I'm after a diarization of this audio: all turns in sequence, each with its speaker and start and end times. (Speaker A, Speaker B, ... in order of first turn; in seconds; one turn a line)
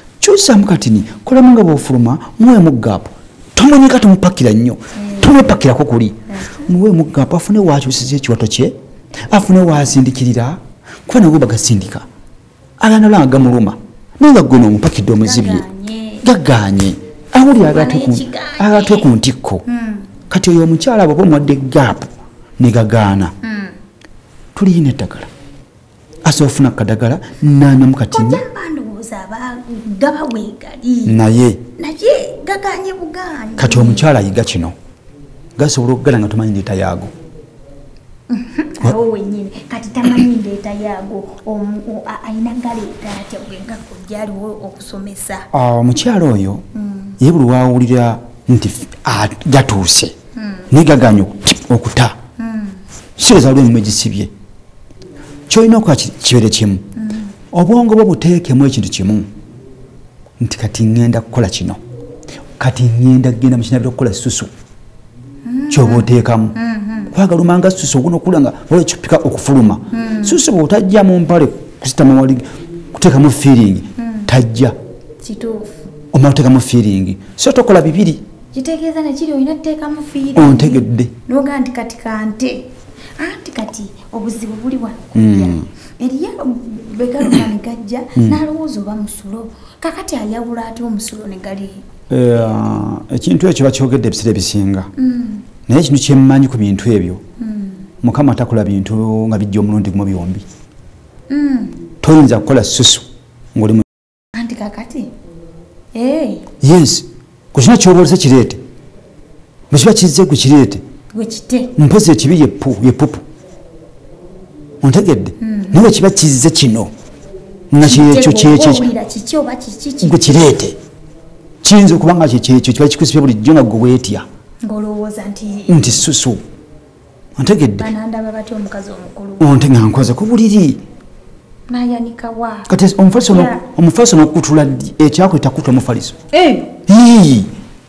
Speaker A: 0.2-8.8
Speaker B: 5.0-5.3
Speaker B: 6.3-6.7
Speaker A: 9.3-12.1
Speaker A: 12.8-15.7
Speaker B: 15.2-16.3
Speaker A: 16.2-19.6
Speaker B: 17.5-19.1
Speaker B: 19.7-20.1
Speaker A: 20.3-23.3
Speaker B: 23.4-23.8
Speaker A: 24.6-25.3
Speaker A: 26.2-28.4
Speaker B: 28.1-31.2
Speaker A: 31.1-31.6
Speaker B: 31.8-34.1
Speaker A: 33.6-34.8
Speaker A: 35.6-37.1
Speaker B: 38.3-45.5
Speaker A: 45.5-46.6
Speaker B: 46.8-47.2
Speaker A: 47.2-50.1
Speaker B: 50.4-50.7
Speaker A: 50.7-52.1
Speaker B: 52.4-52.8
Speaker A: 53.2-54.3
Speaker A: 55.5-56.8
Speaker B: 57.0-57.3
Speaker A: 57.5-59.3
Speaker A: 60.4-61.8
Speaker A: 62.6-64.5
Speaker B: 65.5-67.1
Speaker A: 65.7-66.5
Speaker A: 67.1-74.8
Speaker B: 69.9-70.4
Speaker B: 74.0-74.3
Speaker B: 75.2-75.7
Speaker A: 76.1-78.2
Speaker B: 78.5-91.9
Speaker A: 80.3-81.1
Speaker A: 85.2-85.7
Speaker A: 88.2-88.4
Speaker A: 92.1-94.9
Speaker B: 95.0-95.5
Speaker A: 95.7-97.2
Speaker B: 97.4-97.9
Speaker A: 98.0-100.5
Speaker B: 101.3-101.8
Speaker A: 102.0-103.8
Speaker B: 104.3-105.1
Speaker B: 105.9-106.5
Speaker A: 106.6-108.6
Speaker A: 109.7-110.8
Speaker B: 111.1-111.7
Speaker A: 111.8-113.2
Speaker A: 114.8-116.9
Speaker B: 115.4-115.8
Speaker A: 117.7-118.9
Speaker B: 117.9-120.5
Speaker A: 120.0-120.8
Speaker A: 121.6-124.2
Speaker B: 124.6-126.0
Speaker A: 125.7-126.4
Speaker A: 127.4-127.9
Speaker B: 127.8-129.5
Speaker A: 129.4-130.8
Speaker B: 131.7-132.7
Speaker A: 132.7-136.2
Speaker B: 133.3-133.6
Speaker B: 136.3-136.7
Speaker A: 136.9-137.5